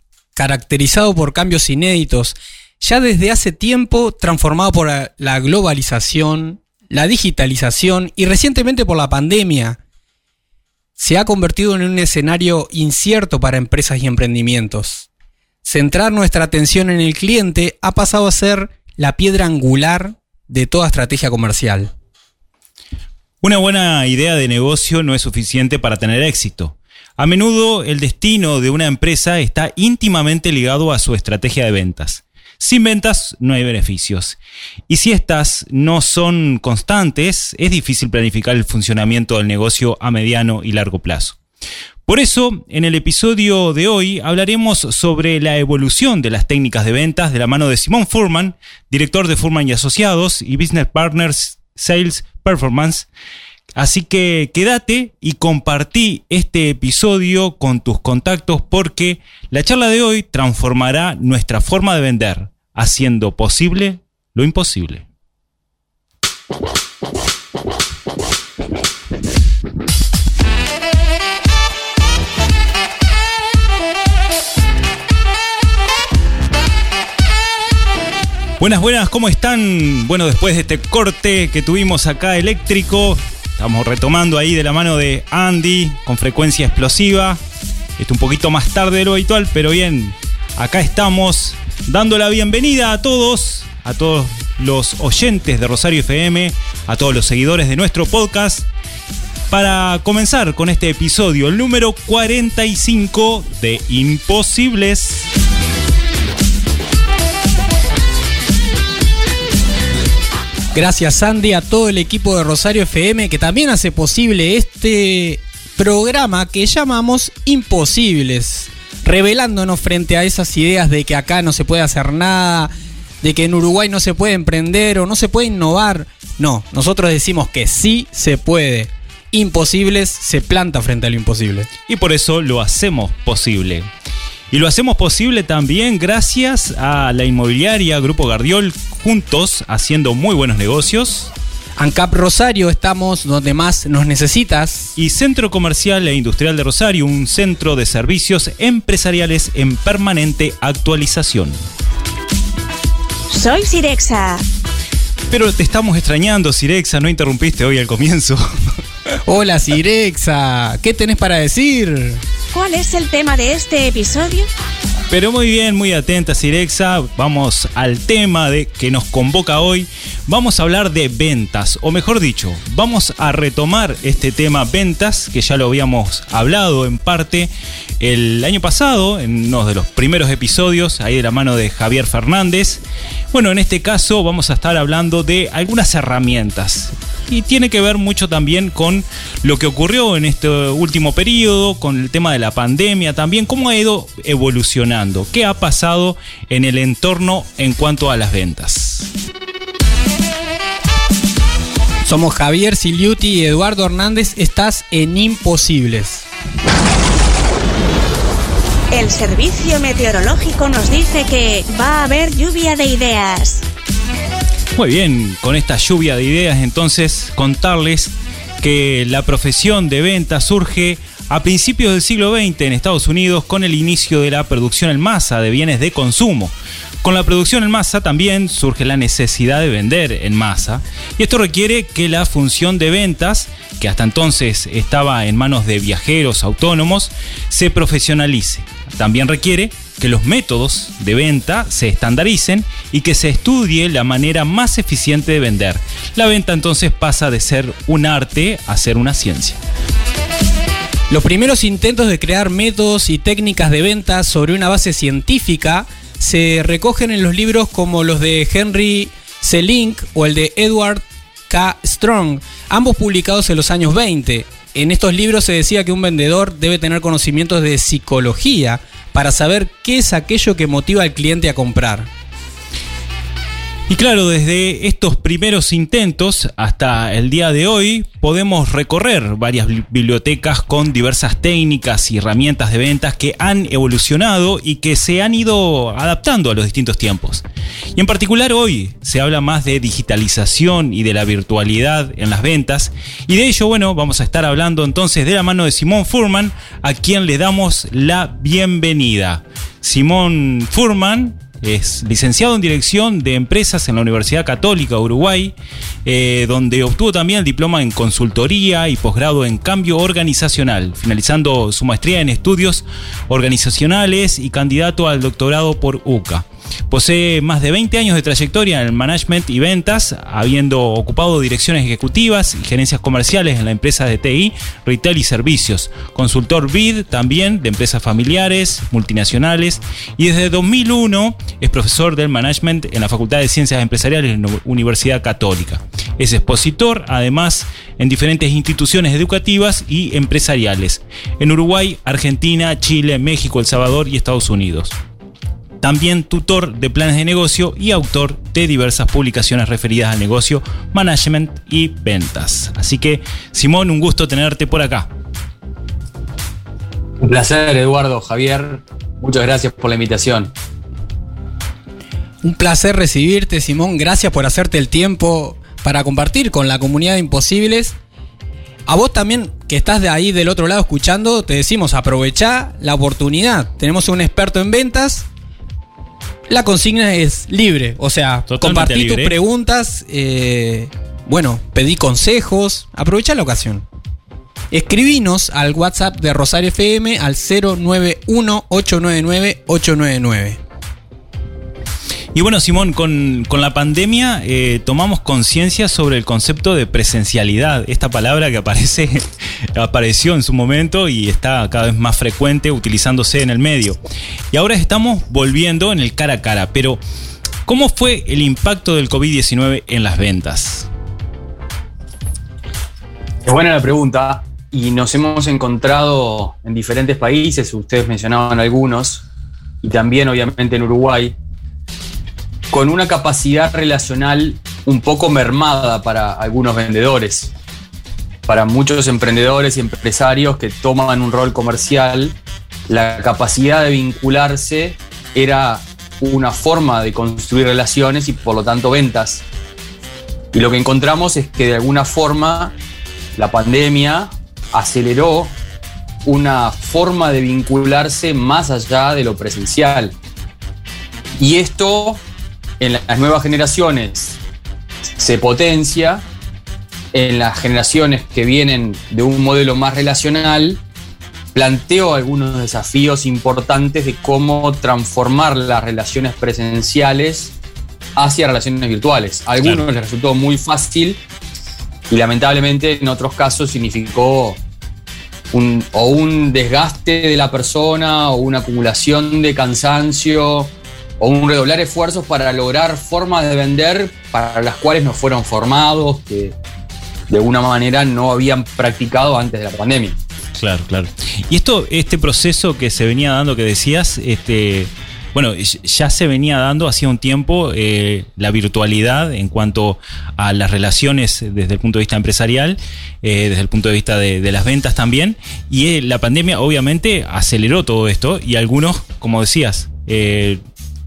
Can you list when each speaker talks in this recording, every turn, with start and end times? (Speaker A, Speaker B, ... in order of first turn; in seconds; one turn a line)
Speaker A: 0.4-9.8
Speaker A: 11.0-15.1
Speaker A: 15.6-21.9
Speaker B: 23.4-34.4
Speaker B: 34.9-41.4
Speaker B: 42.1-53.1
Speaker B: 53.8-65.0
Speaker B: 78.6-87.4
Speaker B: 88.0-98.7
Speaker B: 99.5-105.3
Speaker A: 110.7-131.7
Speaker B: 131.9-133.9
Speaker B: 134.5-141.3
Speaker A: 141.8-144.9
Speaker B: 145.0-151.6
Speaker C: 153.3-154.4
Speaker B: 155.3-158.8
Speaker A: 159.2-162.2
Speaker C: 162.5-164.5
Speaker B: 165.1-199.1
Speaker A: 202.1-206.2
Speaker C: 208.9-213.7
Speaker B: 214.7-249.6
Speaker A: 251.1-272.1
Speaker B: 273.9-287.4
Speaker B: 287.9-345.0
Speaker B: 345.8-355.1
Speaker D: 357.2-360.5
Speaker A: 362.4-368.0
Speaker A: 368.9-375.3
Speaker A: 376.5-383.9
Speaker B: 378.5-379.4
Speaker A: 384.7-390.6
Speaker B: 392.3-404.0
Speaker B: 404.5-407.0
Speaker B: 407.7-410.9
Speaker D: 413.4-419.2
Speaker D: 419.8-421.4
Speaker D: 422.7-427.5
Speaker D: 428.5-439.4
Speaker D: 440.5-442.8
Speaker D: 443.4-445.6
Speaker D: 446.2-450.2
Speaker D: 451.4-452.2
Speaker D: 452.8-454.4
Speaker D: 455.2-456.2
Speaker D: 457.1-460.8
Speaker D: 461.5-467.5
Speaker D: 468.2-471.2
Speaker D: 472.1-474.6
Speaker D: 475.5-486.6
Speaker D: 487.3-490.2
Speaker B: 490.6-510.6